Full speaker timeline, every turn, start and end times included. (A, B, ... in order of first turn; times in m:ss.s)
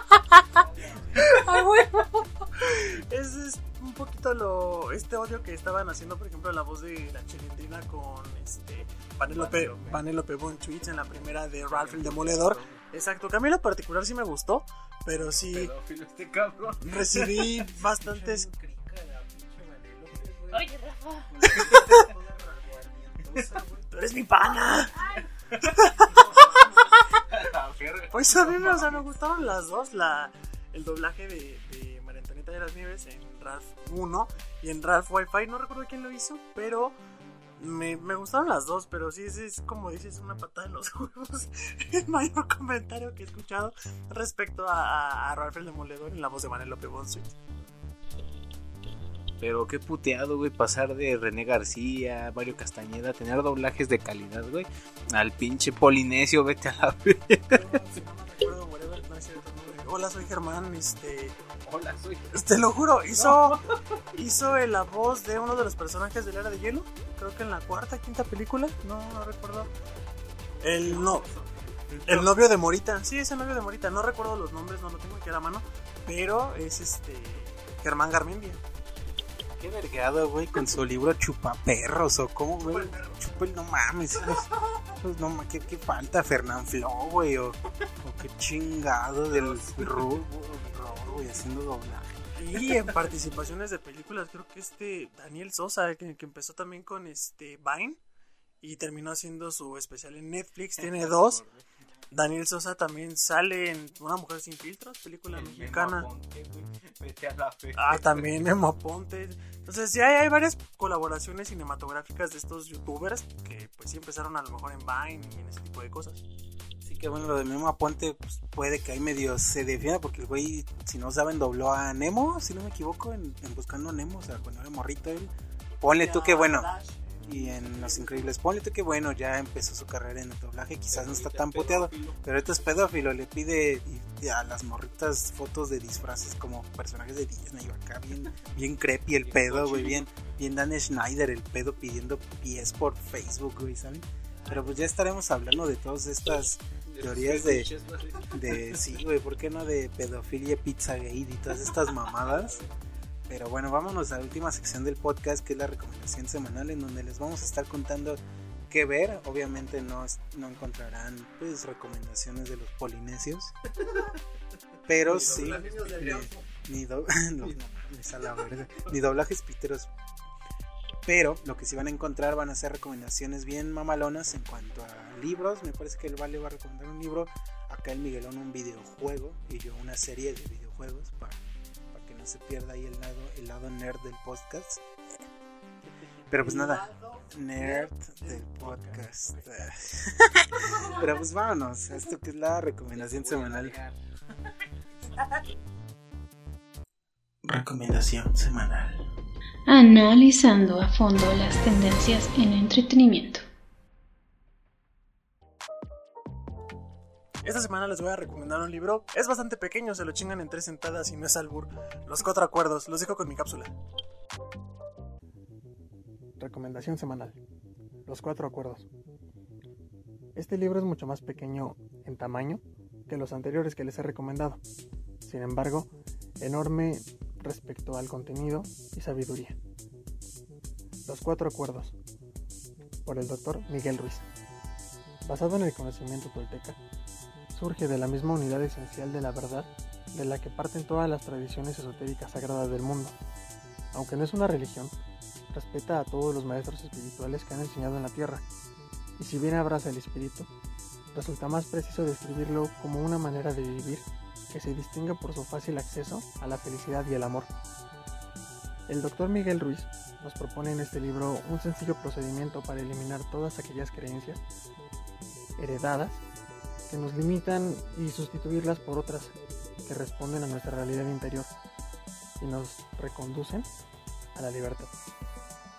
0:00.6-0:01.5 A
0:01.2-0:15.7 B
0:09.3-0:09.7 C
0:09.5-0:09.9 A
0:11.6-0:12.8 A
0:15.5-0:17.5 A
0:16.8-0:18.5 B
0:18.0-0:20.6 C
0:19.4-0:23.8 A
0:21.4-0:23.7 C
0:21.5-0:22.1 B
0:23.9-0:25.0 B
0:25.6-0:26.8 B
0:26.0-0:29.0 A
0:28.1-0:37.0 B
0:37.6-0:47.4 B
0:49.4-0:57.6 A
0:57.5-1:01.4 B
1:01.6-1:02.4 A
1:02.3-1:03.6 B
1:03.2-1:03.7 A
1:04.1-1:09.7 B
1:10.6-1:11.3 B
1:10.6-1:12.2 A
1:11.9-1:12.2 C
1:12.0-1:18.6 B
1:19.6-1:32.3 C
1:29.4-1:29.9 A
1:32.4-1:38.0 B
1:38.6-1:41.4 B
1:40.8-1:41.6 A
1:42.1-1:46.1 B
1:45.3-1:48.3 A
1:47.8-1:56.2 B
1:56.8-2:06.7 C
2:05.9-2:08.1 B
2:07.3-2:27.7 C
2:10.9-2:12.2 A
2:19.2-2:20.1 A
2:26.9-2:28.9 A
2:28.3-2:32.6 C
2:32.2-2:32.7 A
2:33.3-2:43.5 C
2:44.9-2:49.9 C
2:45.1-2:46.2 A
2:45.2-2:46.4 B
2:51.1-3:01.4 C
3:01.9-3:05.3 C
3:06.3-3:13.8 C
3:06.4-3:09.7 B
3:12.9-3:14.0 A
3:17.4-3:19.1 C
3:19.7-3:23.4 D
3:27.4-3:33.7 B
3:36.4-3:37.4 B
3:38.1-3:38.9 B
3:40.4-3:44.6 B
3:45.2-3:45.9 B
3:46.4-3:49.6 B
3:51.1-3:51.9 B
3:53.1-3:54.2 B
3:55.2-3:56.8 B
3:57.6-4:03.2 B
4:03.9-4:05.0 B
4:05.5-4:08.4 B
4:09.2-4:10.5 B
4:11.1-4:17.5 B
4:18.9-4:24.4 B
4:25.6-4:26.2 B
4:26.9-4:29.3 B
4:29.9-4:31.5 B
4:32.4-4:33.7 B
4:34.4-4:34.9 B